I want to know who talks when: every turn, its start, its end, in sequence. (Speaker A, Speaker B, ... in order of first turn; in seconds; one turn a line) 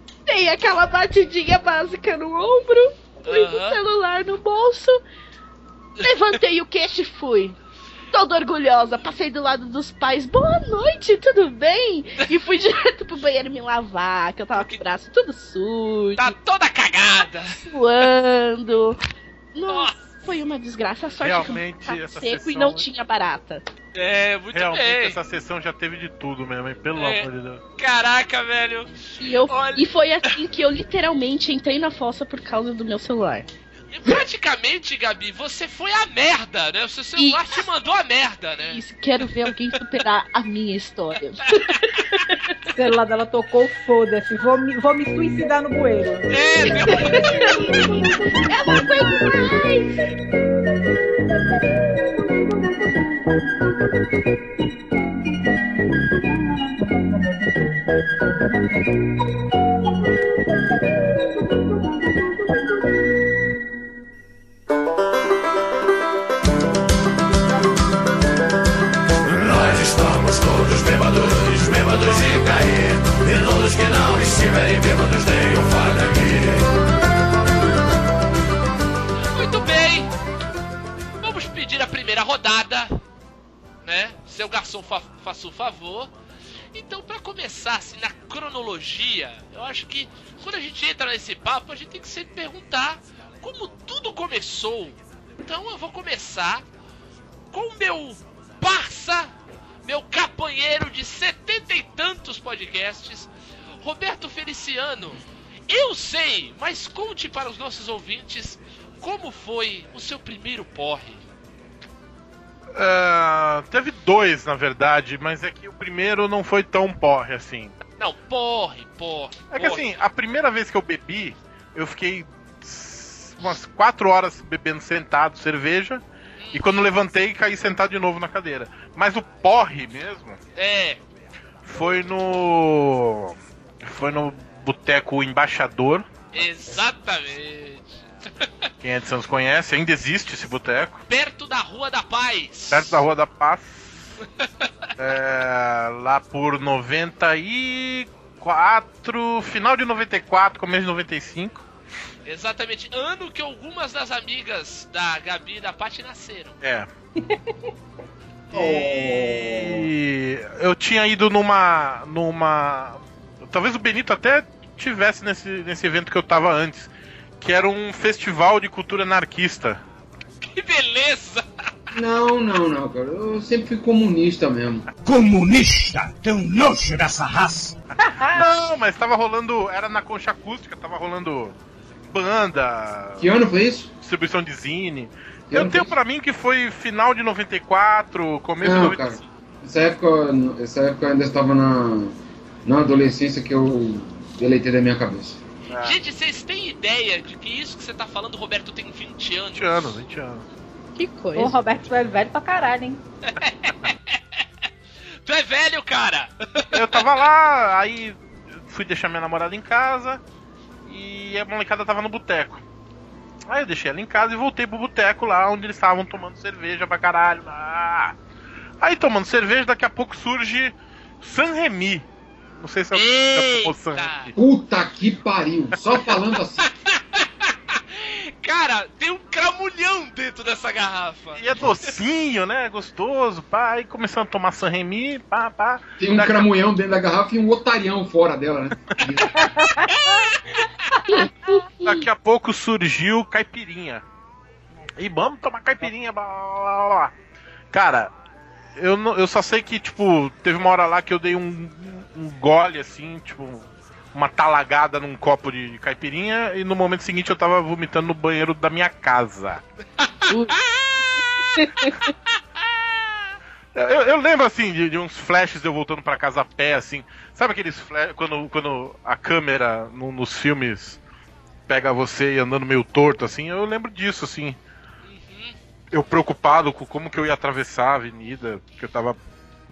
Speaker A: 0.3-5.0
Speaker B: 3.2-3.8
Speaker A: 6.0-7.6
Speaker A: 8.1-16.3
Speaker B: 14.5-14.8
Speaker B: 16.2-18.1
Speaker A: 17.6-19.0
Speaker A: 19.5-23.6
Speaker B: 19.7-19.9
Speaker C: 21.2-22.9
Speaker B: 23.9-25.2
Speaker C: 24.5-27.6
Speaker B: 26.9-30.3
Speaker A: 29.2-33.5
Speaker B: 33.9-38.8
Speaker A: 37.1-37.6
Speaker A: 38.7-42.6
Speaker D: 42.7-46.3
Speaker B: 46.3-47.9
Speaker A: 46.9-49.9
Speaker E: 69.7-70.9
Speaker B: 71.9-72.3
Speaker E: 72.8-75.3
Speaker B: 79.2-80.1
Speaker B: 81.2-83.0
Speaker B: 83.8-86.1
Speaker B: 86.7-96.6
Speaker B: 97.5-103.3
Speaker B: 103.8-111.2
Speaker C: 112.8-117.8
Speaker B: 118.0-119.9
Speaker C: 119.5-126.0
Speaker B: 126.4-126.8
Speaker C: 126.5-130.4
Speaker B: 130.6-131.0
Speaker C: 131.7-136.1
Speaker B: 136.3-137.8
Speaker B: 138.4-138.7
Speaker C: 138.8-141.0
Speaker B: 141.1-143.0
Speaker C: 142.7-144.1
Speaker C: 145.0-151.6
Speaker B: 152.2-156.6
Speaker C: 156.6-156.9
Speaker C: 158.5-166.9
Speaker F: 158.5-159.8
Speaker C: 167.4-169.8
Speaker B: 170.4-171.4
Speaker F: 171.9-174.8
Speaker G: 175.0-177.7
Speaker C: 178.3-181.5
Speaker C: 182.1-183.3
Speaker F: 183.2-183.9
Speaker C: 184.0-189.2
Speaker F: 185.5-185.9
Speaker F: 188.6-195.4
Speaker C: 195.7-196.0
Speaker B: 195.8-200.0
Speaker C: 199.5-200.4
Speaker A: 201.0-201.6
Speaker D: 201.3-203.0
Speaker B: 203.3-204.0
Speaker B: 205.2-207.1
Speaker C: 206.7-210.2
Speaker C: 210.8-212.6
Speaker C: 213.5-218.2
Speaker C: 218.8-222.1
Speaker C: 222.6-224.3
Speaker B: 222.9-224.3
Speaker F: 224.3-226.7
Speaker B: 226.6-232.0
Speaker C: 231.3-236.4
Speaker F: 236.0-239.4
Speaker D: 239.6-240.2
Speaker A: 241.1-242.0
Speaker C: 241.8-244.0
Speaker C: 245.0-247.1
Speaker C: 247.7-248.1
Speaker C: 248.8-259.6
Speaker A: 260.3-260.6
Speaker B: 260.5-260.9
Speaker A: 261.5-262.1
Speaker B: 262.6-263.4
Speaker C: 263.7-271.0
Speaker C: 271.7-274.6
Speaker B: 275.0-275.6
Speaker C: 275.9-279.2